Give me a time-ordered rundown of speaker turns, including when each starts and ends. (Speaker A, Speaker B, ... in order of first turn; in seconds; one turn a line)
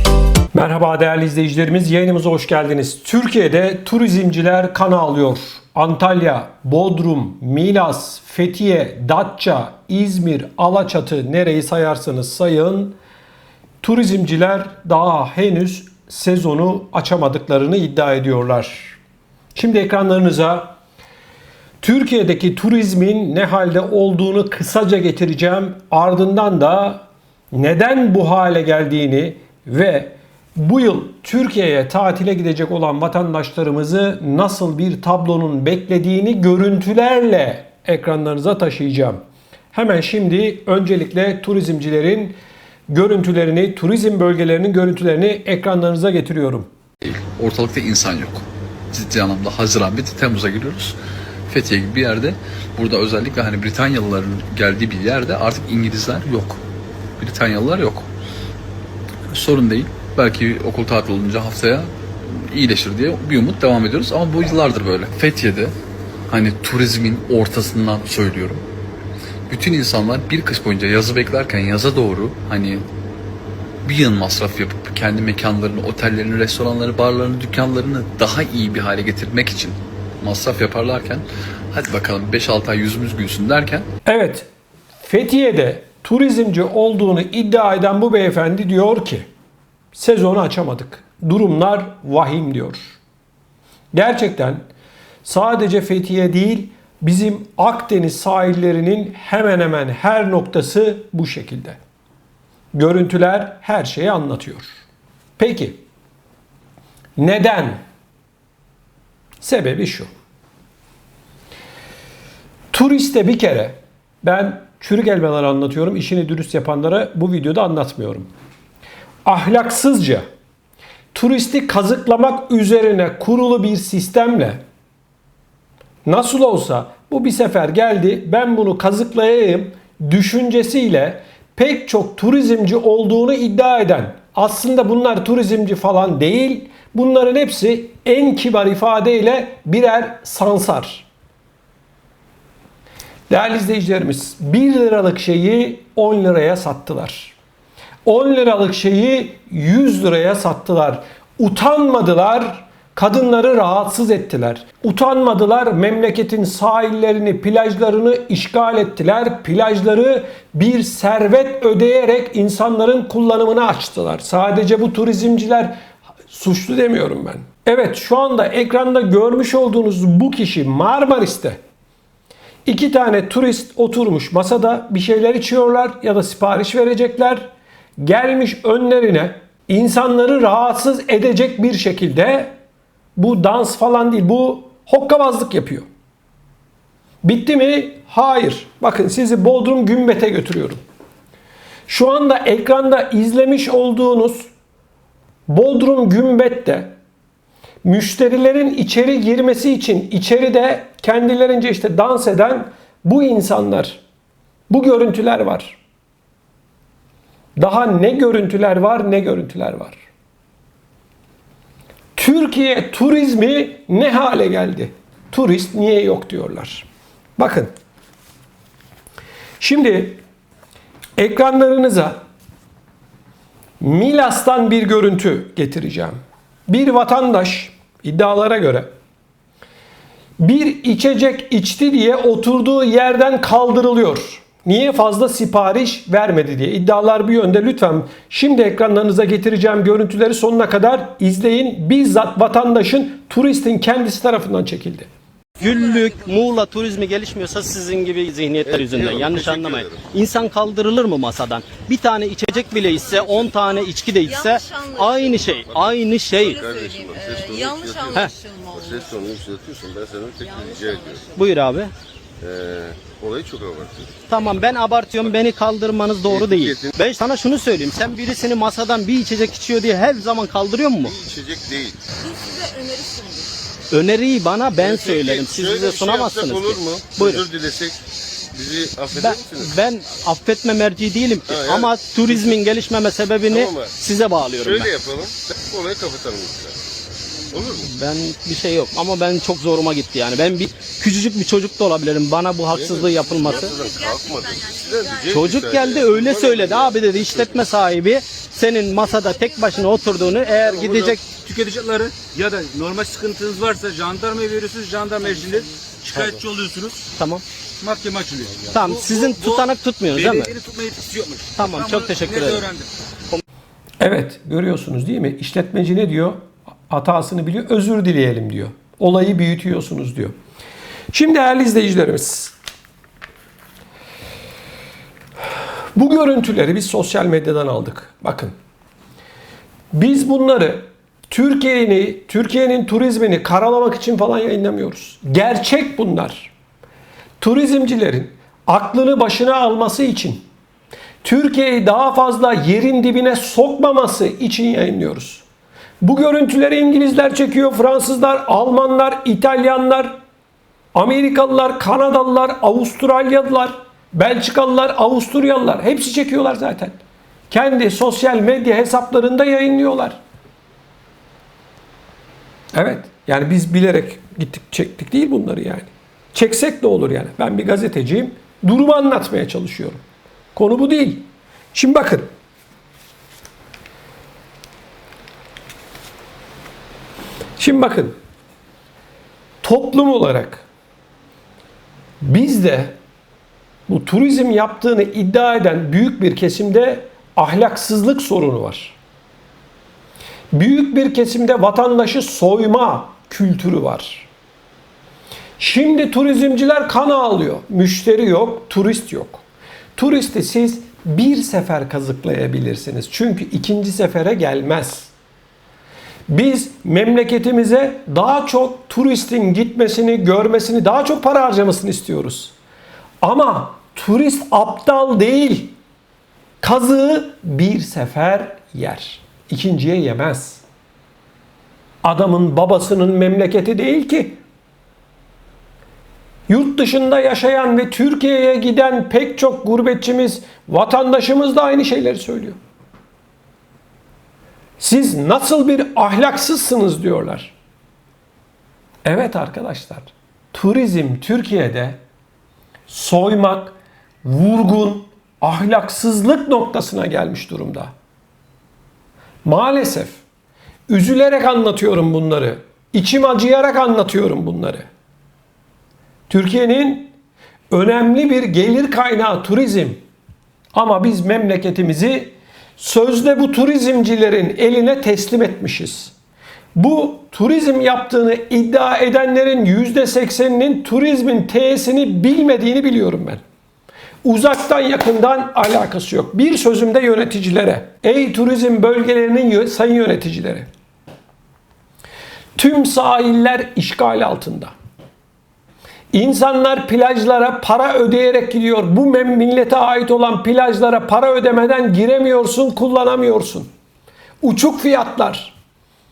Speaker A: 0.5-12.9
Speaker A: 13.8-19.0
Speaker A: 19.5-20.7
Speaker A: 21.8-39.2
Speaker A: 39.7-42.3
Speaker A: 42.9-46.7
Speaker B: 47.0-51.0
Speaker B: 51.5-56.6
Speaker B: 57.2-58.1
Speaker B: 59.3-65.7
Speaker B: 66.3-68.6
Speaker B: 69.5-72.8
Speaker B: 73.8-83.9
Speaker A: 84.0-84.5
Speaker A: 85.0-89.2
Speaker A: 89.9-93.0
Speaker A: 93.9-94.6
Speaker A: 95.2-101.8
Speaker A: 102.7-104.8
Speaker A: 105.4-105.8
Speaker A: 107.2-107.8
Speaker A: 109.4-110.1
Speaker A: 112.7-118.3
Speaker A: 119.2-120.2
Speaker A: 121.1-124.6
Speaker A: 126.0-141.1
Speaker A: 143.3-147.3
Speaker A: 148.0-165.8
Speaker A: 166.3-171.6
Speaker A: 172.7-182.5
Speaker A: 183.2-185.8
Speaker A: 187.2-190.8
Speaker A: 191.9-194.5
Speaker A: 195.5-196.9
Speaker A: 197.8-204.0
Speaker A: 204.7-205.8
Speaker A: 207.6-210.0
Speaker A: 212.2-216.8
Speaker A: 217.4-217.7
Speaker A: 219.6-220.2
Speaker A: 221.2-222.2
Speaker A: 223.8-228.9
Speaker A: 230.4-245.1
Speaker C: 245.6-256.6
Speaker D: 245.6-246.1
Speaker E: 248.6-250.1
Speaker D: 253.3-255.6
Speaker E: 255.6-261.3
Speaker D: 256.6-259.1
Speaker D: 260.5-261.2
Speaker C: 261.3-261.9
Speaker E: 262.4-265.4
Speaker C: 264.3-271.1
Speaker E: 266.2-266.9
Speaker E: 271.0-272.0
Speaker D: 272.2-273.5
Speaker C: 273.9-277.5
Speaker E: 274.8-278.0
Speaker E: 278.5-279.8
Speaker C: 279.1-284.9
Speaker E: 281.5-282.6
Speaker E: 283.5-283.9
Speaker E: 284.5-286.8
Speaker E: 287.5-287.9
Speaker C: 287.8-293.7
Speaker E: 292.7-297.9
Speaker D: 293.6-295.4
Speaker C: 295.3-301.4
Speaker D: 299.2-300.6
Speaker E: 300.6-301.2
Speaker F: 301.4-307.1
Speaker E: 306.1-306.4
Speaker C: 307.1-307.4
Speaker F: 307.8-312.9
Speaker C: 308.7-310.6
Speaker C: 311.5-312.7
Speaker A: 314.0-320.3
Speaker A: 321.1-322.5
Speaker A: 325.9-328.5
Speaker A: 329.9-336.5
Speaker A: 337.4-340.4
Speaker A: 341.2-345.4
Speaker A: 346.0-350.1
Speaker A: 350.9-357.0
Speaker A: 357.5-360.2
Speaker A: 362.7-370.0
Speaker A: 370.5-372.3
Speaker A: 377.6-378.1
Speaker A: 379.6-380.6
Speaker A: 382.2-382.9
Speaker A: 383.9-389.0
Speaker A: 390.5-394.3
Speaker A: 395.6-399.4
Speaker A: 399.9-405.1
Speaker A: 406.3-412.5
Speaker A: 413.2-415.7
Speaker A: 416.6-420.6
Speaker A: 422.0-424.4
Speaker A: 426.5-432.6
Speaker A: 434.8-437.5
Speaker A: 439.0-442.0
Speaker A: 442.9-447.9
Speaker A: 449.4-450.2
Speaker A: 450.9-454.9
Speaker A: 456.3-457.1
Speaker A: 457.7-460.0
Speaker A: 460.7-466.1
Speaker A: 466.7-473.4
Speaker A: 474.2-480.7
Speaker A: 482.6-484.7
Speaker A: 486.1-493.7
Speaker A: 494.4-495.5